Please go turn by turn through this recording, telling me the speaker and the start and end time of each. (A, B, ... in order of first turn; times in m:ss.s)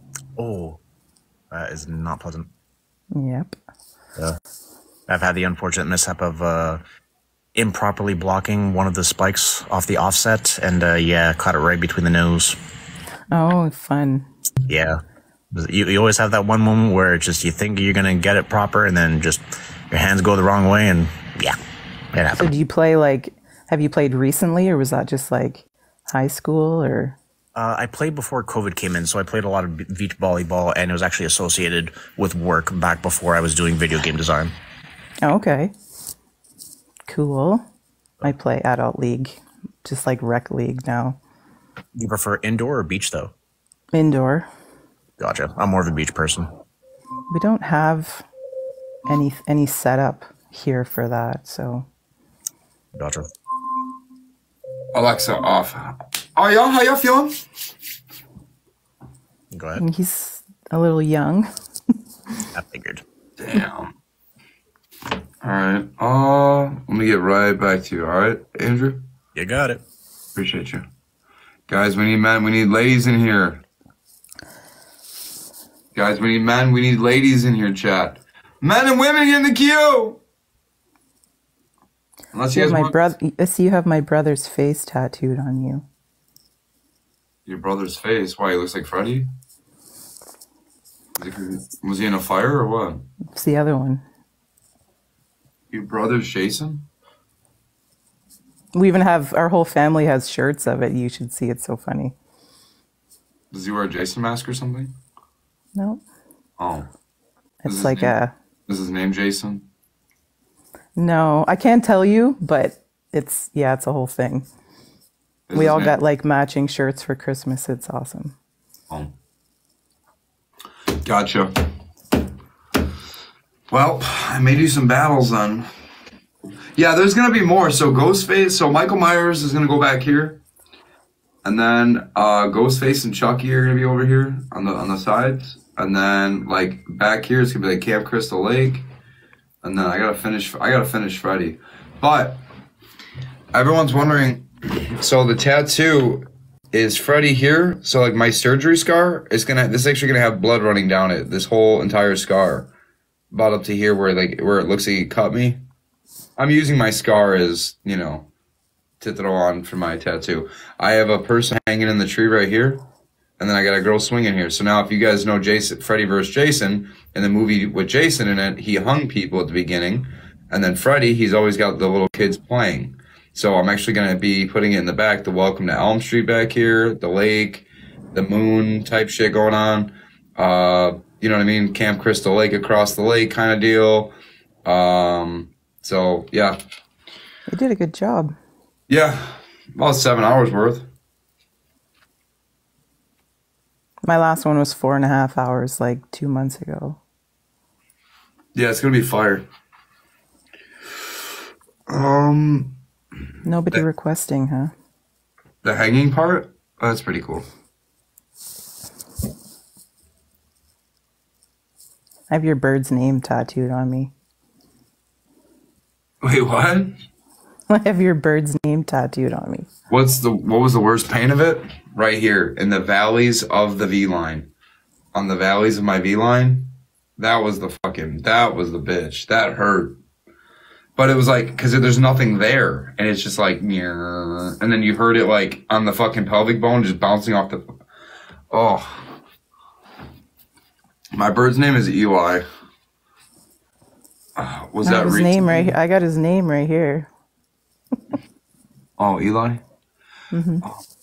0:00.4-0:00.8 A
0:01.5-0:02.5 A
0:03.1-0:03.5 B
0:05.1-0:06.8 A
0:07.5-0:12.6 A
0:13.3-0:14.3 B
0:14.7-0:15.0 A
0:15.5-0:21.6 A
0:22.1-0:22.5 A
0:22.4-0:27.2 B
0:27.6-0:34.5 A
0:35.2-0:35.7 B
0:37.1-0:37.6 B
0:38.2-0:41.2 B
0:42.0-0:43.3 A
0:43.9-0:44.5 B
0:45.2-0:46.5 A
0:47.3-0:48.2 B
0:49.1-0:51.9 B
0:52.9-0:53.3 A
0:54.9-0:57.3 C
0:59.5-0:59.8 A
0:59.8-1:01.5 B
1:02.5-1:03.0 A
1:03.4-1:03.9 C
1:05.4-1:09.0 C
1:09.3-1:09.8 A
1:10.3-1:10.8 C
1:11.7-1:13.6 C
1:15.9-1:20.2 C
1:22.3-1:23.0 C
1:22.5-1:25.8 B
1:27.4-1:29.3 C
1:31.2-1:33.0 C
1:33.3-1:34.0 B
1:35.7-1:36.8 C
1:38.7-1:42.1 B
1:43.5-1:44.9 C
1:45.7-1:46.0 B
1:46.6-1:46.9 C
1:47.6-1:48.3 B
1:47.6-1:48.2 C
1:48.7-1:49.6 C
1:51.0-1:54.4 B
1:55.5-1:56.0 C
1:55.5-1:58.3 B
2:01.0-2:01.5 C
2:03.7-2:05.7 C
2:06.8-2:10.4 C
2:11.4-2:18.8 C
2:19.6-2:22.4 C
2:23.5-2:32.7 C
2:33.3-2:35.6 C
2:36.4-2:38.3 C
2:39.0-2:42.8 C
2:43.4-3:06.6 C
3:07.5-3:08.3 B
3:08.9-3:10.9 C
3:14.0-3:17.0 B
3:18.5-3:19.4 C
3:21.9-3:22.8 C
3:23.4-3:24.7 B
3:25.6-3:27.4 C
3:32.3-3:34.1 B
3:36.2-3:36.9 C
3:37.7-3:39.7 B
3:39.9-3:44.5 C
3:45.1-3:50.0 C
3:51.0-3:57.6 C
3:58.5-3:59.1 C
4:01.1-4:02.4 C
4:04.4-4:05.7 C
4:04.8-4:07.1 B
4:09.0-4:09.6 C
4:10.3-4:10.6 B